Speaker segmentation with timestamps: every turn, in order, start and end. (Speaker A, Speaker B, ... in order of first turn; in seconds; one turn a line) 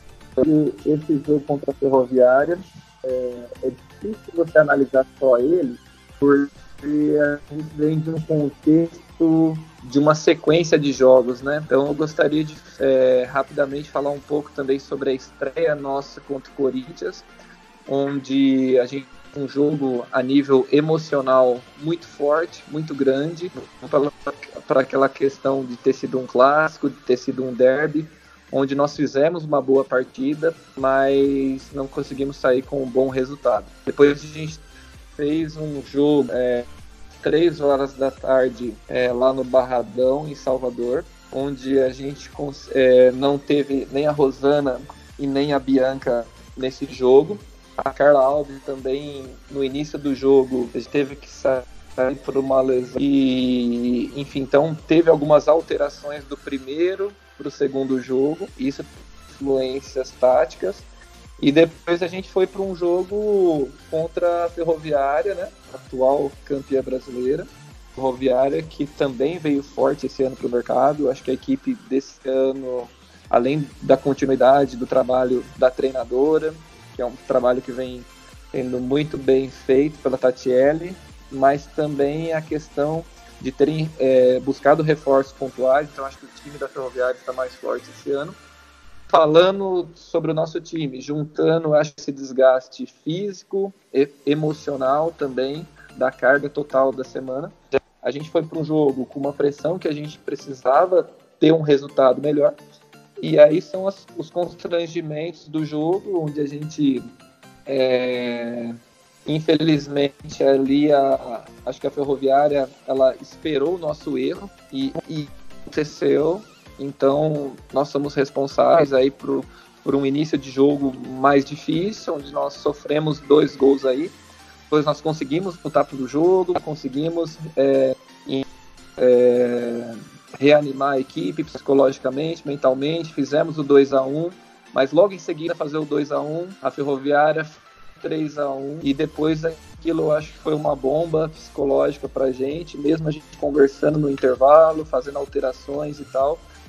Speaker A: 0.4-17.2
Speaker A: 17.9-34.6
Speaker A: 35.1-36.7
Speaker A: 37.2-60.9
Speaker A: 61.4-88.4
Speaker A: 89.1-102.5
Speaker A: 103.2-107.0
Speaker A: 107.7-124.1
Speaker A: 124.7-128.4
Speaker A: 129.0-146.4